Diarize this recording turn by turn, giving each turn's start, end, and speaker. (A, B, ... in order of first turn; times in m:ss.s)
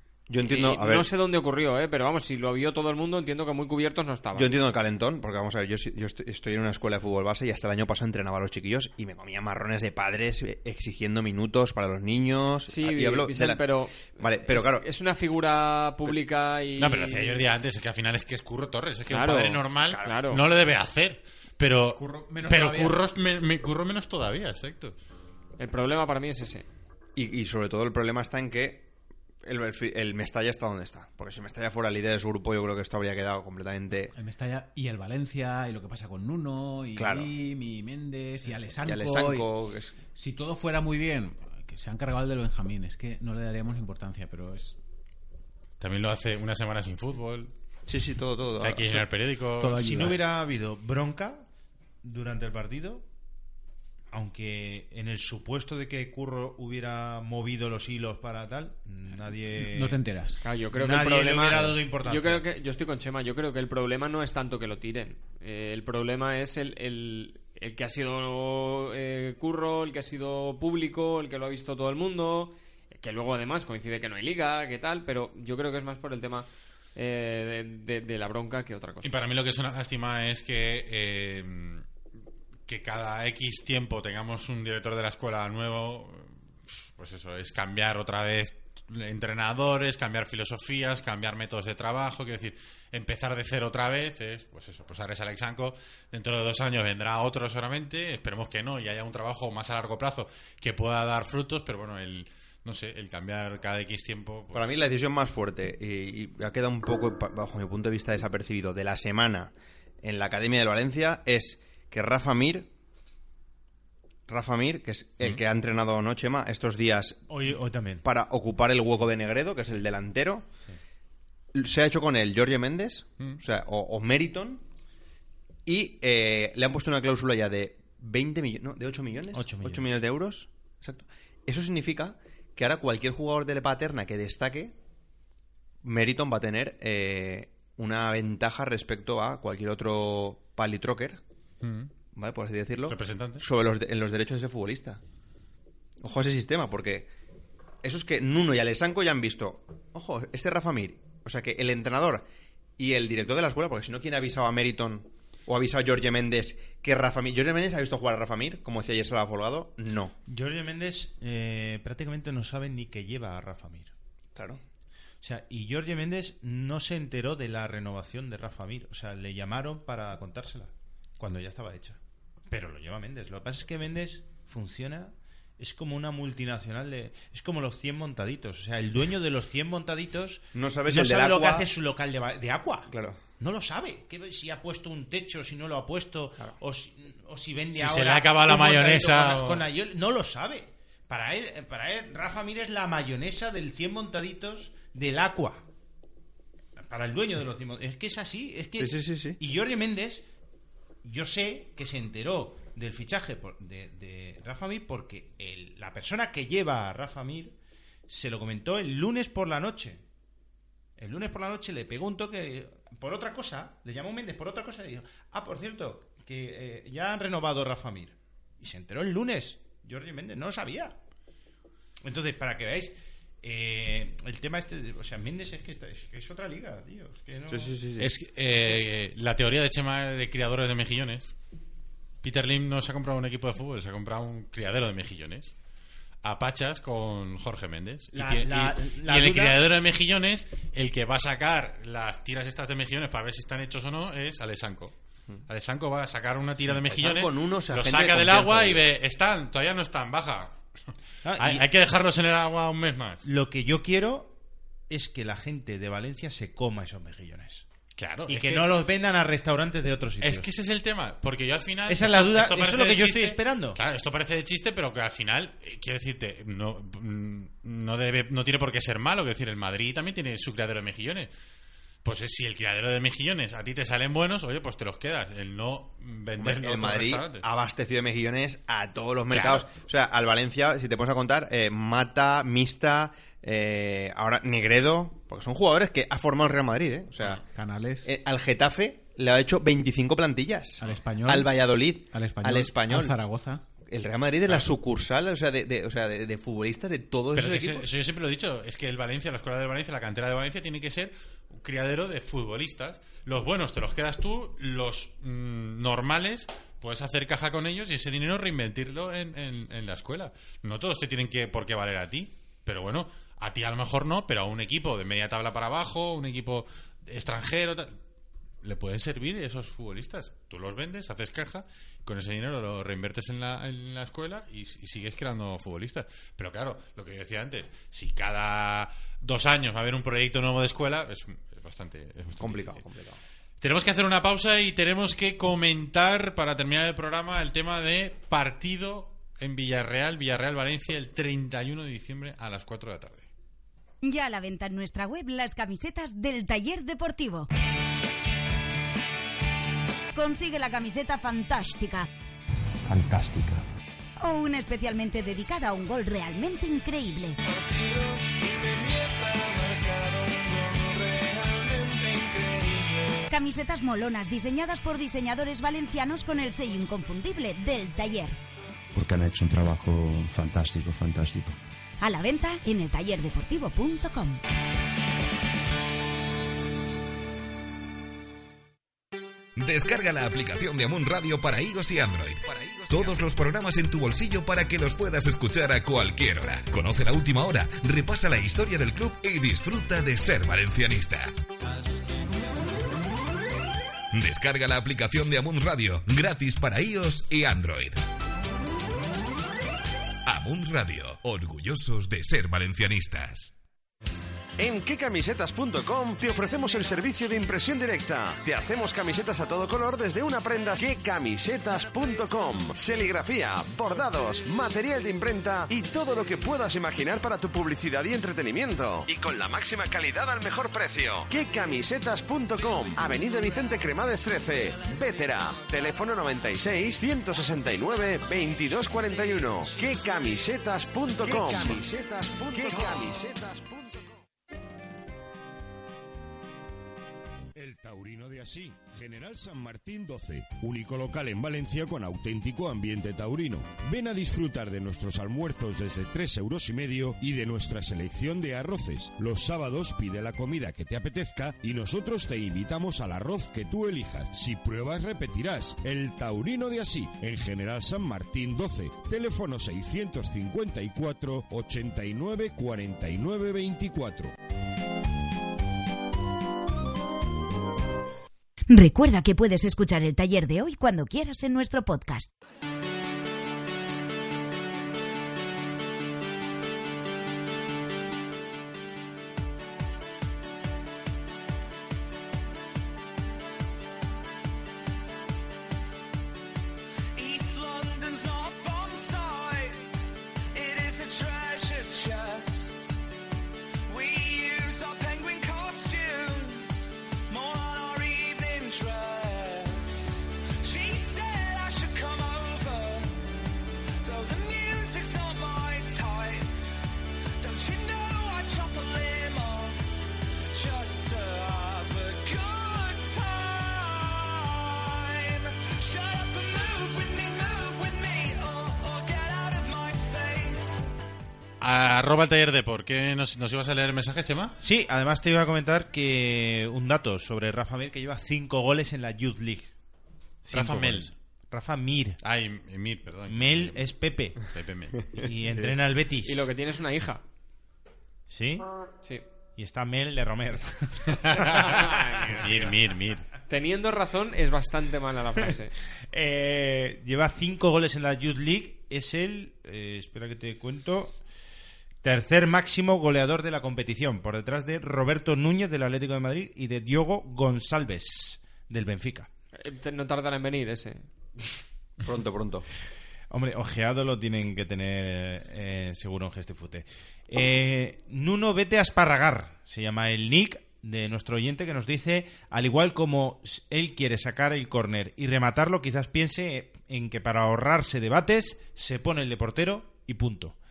0:00.3-0:01.1 A
0:00.4-0:04.5 B
0:04.3-0:13.6 A
0:12.7-0:17.4 B
0:14.1-0:14.8 A
0:16.8-0:24.9 C
0:19.1-0:20.4 B
0:21.9-0:23.0 D
0:25.6-0:26.6 B
0:27.2-0:28.9 A
0:29.4-0:34.1 A
0:34.1-0:39.5 D
0:37.0-0:37.3 A
0:38.8-0:40.0 A
0:40.1-0:44.8 D
0:45.8-0:47.5 C
0:47.9-0:49.0 A
0:48.6-0:50.0 C
0:49.6-0:50.2 D
0:49.6-0:51.5 E
0:52.0-0:53.0 E
0:54.1-1:00.0 E
0:59.6-1:00.4 D
1:00.4-1:19.1 B
1:00.7-1:02.4 E
1:19.0-1:21.8 C
1:22.7-1:44.7 C
1:44.5-1:52.7 A
1:54.3-1:57.2 A
1:57.3-1:58.0 E
1:58.0-2:00.5 A
2:01.5-2:04.6 A
2:05.6-2:14.7 A
2:09.3-2:09.9 E
2:15.8-2:21.2 A
2:21.6-2:21.9 C
2:22.1-2:25.0 A
2:22.9-2:23.4 C
2:26.0-2:27.1 A
2:27.8-2:32.2 A
2:32.8-2:40.2 A
2:40.3-2:43.9 E
2:44.3-2:44.6 A
2:45.2-2:52.0 E
2:52.5-3:15.6 E
3:00.5-3:01.7 A
3:02.9-3:03.2 A
3:07.7-3:09.6 C
3:16.8-3:20.2 E
3:18.8-3:19.4 A
3:21.0-3:27.5 E
3:28.1-3:30.0 E
3:31.0-3:41.0 E
3:42.0-3:47.7 E
3:47.5-3:48.1 A
3:48.0-3:51.3 C
3:52.2-3:55.5 C
3:56.2-4:04.9 C
3:58.1-3:59.6 E
4:05.5-4:10.6 C
4:06.6-4:08.8 A
4:11.2-4:11.6 E
4:11.4-4:13.2 C
4:13.2-4:14.4 E
4:14.9-4:17.6 E
4:18.0-4:18.7 C
4:18.3-4:20.5 E
4:20.2-4:31.3 C
4:21.9-4:23.8 E
4:32.0-4:37.4 C
4:36.4-4:47.4 A
4:39.3-4:39.6 C
4:47.4-4:48.1 D
4:48.0-4:53.2 A
4:50.8-4:53.6 D
4:53.9-4:57.9 A
4:57.3-5:17.9 C
5:18.6-5:32.8 C
5:32.4-5:33.2 A
5:33.6-5:43.3 C
5:44.0-5:47.5 F
5:50.1-5:52.1 F
5:52.8-5:53.6 G
5:54.2-5:57.4 F
5:57.5-6:03.1 H
6:03.3-6:08.4 F
6:08.9-6:11.6 G
6:12.0-6:14.4 F
6:19.6-6:31.3 I
6:34.1-6:38.0 I
6:40.2-6:43.5 I
6:44.6-7:14.1 J
7:02.9-7:03.4 H
7:08.4-7:10.0 H
7:11.2-7:13.2 H
7:17.5-7:44.3 K
7:48.7-7:52.3 F
8:07.1-8:09.8 H
8:10.5-8:13.0 H
8:13.9-8:23.2 H
8:24.0-8:26.5 H
8:27.4-8:29.9 H
8:30.5-8:40.9 H
8:41.6-8:44.6 C
8:44.6-8:49.7 E
8:50.4-8:52.2 E
8:50.5-8:51.1 C
8:52.2-8:55.0 C
8:53.3-8:54.4 E
8:55.1-8:56.4 E
8:56.2-8:57.2 B
8:58.3-8:58.6 E
8:59.6-9:02.4 E
9:01.1-9:01.4 C
9:01.6-9:02.5 B
9:02.4-9:03.2 C
9:03.5-9:05.7 B
9:06.1-9:11.2 E
9:12.0-9:19.3 E
9:19.6-9:21.0 B
9:22.0-9:22.7 A
9:23.3-9:40.5 E